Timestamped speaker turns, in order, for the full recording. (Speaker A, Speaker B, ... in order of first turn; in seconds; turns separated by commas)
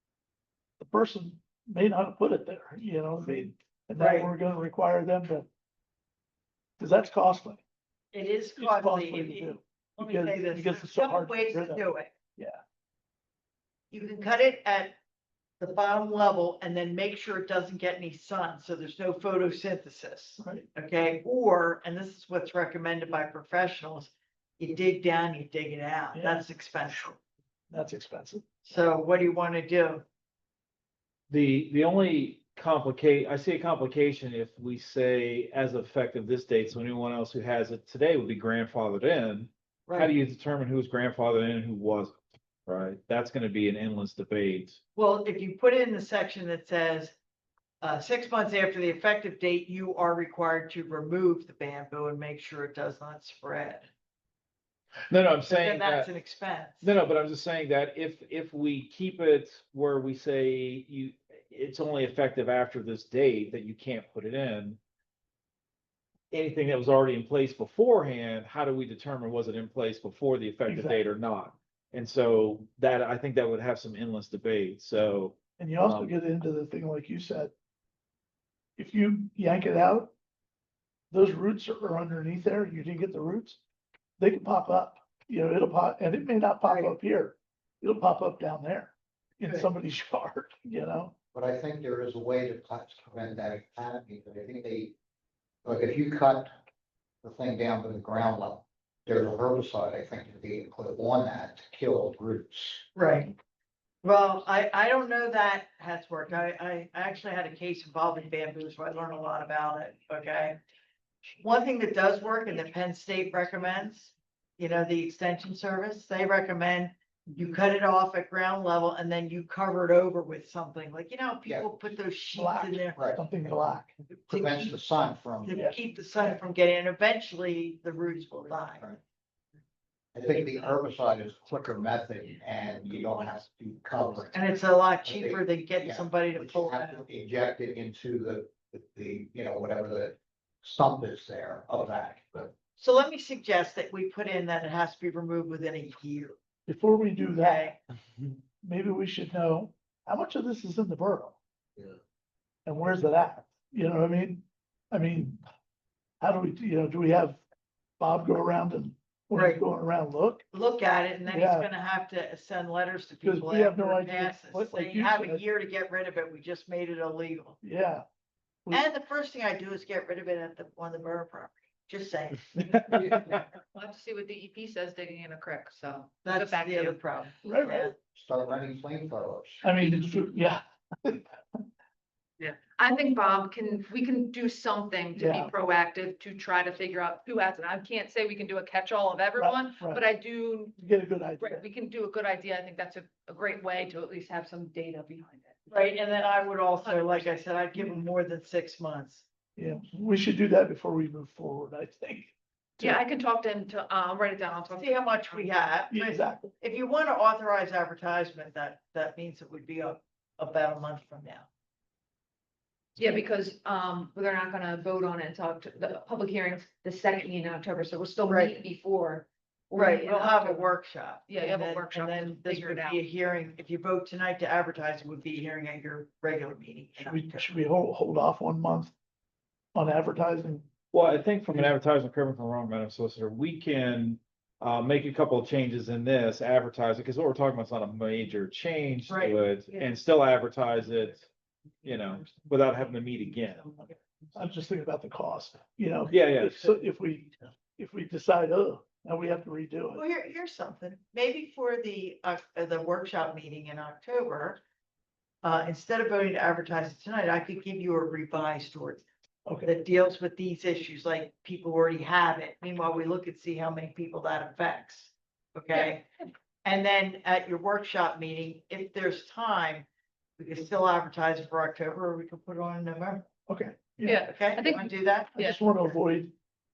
Speaker A: 0.8-5.5, Speaker B: 4.0-4.3, Speaker A: 6.8-7.6, Speaker B: 8.1-12.1, Speaker A: 8.6-12.6, Speaker B: 13.9-15.0, Speaker B: 15.6-27.2, Speaker A: 20.4-20.7, Speaker A: 26.1-26.4, Speaker A: 27.7-28.4, Speaker B: 28.6-30.0, Speaker C: 31.3-44.8, Speaker B: 39.9-40.1, Speaker B: 44.9-47.1, Speaker B: 47.8-53.9, Speaker C: 55.1-56.1, Speaker B: 55.5-56.9, Speaker C: 56.8-64.8, Speaker C: 66.3-76.1, Speaker A: 70.7-71.0, Speaker A: 75.6-77.5, Speaker A: 78.8-80.1, Speaker A: 81.1-83.6, Speaker A: 84.2-91.1, Speaker B: 86.6-86.9, Speaker D: 91.3-94.9, Speaker D: 95.6-96.5, Speaker D: 97.2-102.8, Speaker B: 102.9-103.4, Speaker B: 104.0-110.6, Speaker B: 111.4-123.0, Speaker A: 122.3-123.9, Speaker D: 123.0-123.2, Speaker B: 124.3-124.7, Speaker D: 124.3-125.6, Speaker B: 125.4-128.9, Speaker D: 130.1-142.5, Speaker B: 134.3-137.0, Speaker B: 142.8-146.3, Speaker A: 146.7-147.7, Speaker B: 147.3-147.8, Speaker A: 148.6-151.4, Speaker A: 152.7-155.4, Speaker A: 156.2-157.4, Speaker A: 158.0-160.4, Speaker B: 159.3-159.6, Speaker B: 160.5-167.6, Speaker A: 161.3-161.7, Speaker A: 163.2-165.4, Speaker A: 167.6-168.0, Speaker B: 168.7-173.4, Speaker C: 172.7-173.4, Speaker E: 173.7-177.0, Speaker B: 176.2-177.9, Speaker A: 177.4-177.9, Speaker D: 178.1-179.6, Speaker A: 179.6-181.6, Speaker E: 182.5-190.8, Speaker A: 185.1-185.5, Speaker A: 189.4-190.0, Speaker A: 190.8-191.6, Speaker E: 191.4-195.7, Speaker B: 195.7-199.2, Speaker E: 196.8-197.4, Speaker A: 199.6-203.0, Speaker E: 202.8-205.5, Speaker B: 204.7-211.5, Speaker A: 205.9-206.5, Speaker E: 213.0-220.7, Speaker B: 218.3-218.5, Speaker B: 219.7-227.5, Speaker E: 221.3-223.0, Speaker A: 227.0-228.9, Speaker A: 229.7-230.7, Speaker C: 230.9-241.3, Speaker B: 239.0-239.4, Speaker C: 241.8-243.7, Speaker A: 244.3-250.0, Speaker C: 246.1-246.8, Speaker B: 249.9-254.6, Speaker B: 255.4-259.0, Speaker B: 259.6-266.1, Speaker B: 266.6-269.9, Speaker B: 270.4-273.3, Speaker A: 273.5-276.3, Speaker E: 274.0-275.6, Speaker B: 274.1-275.4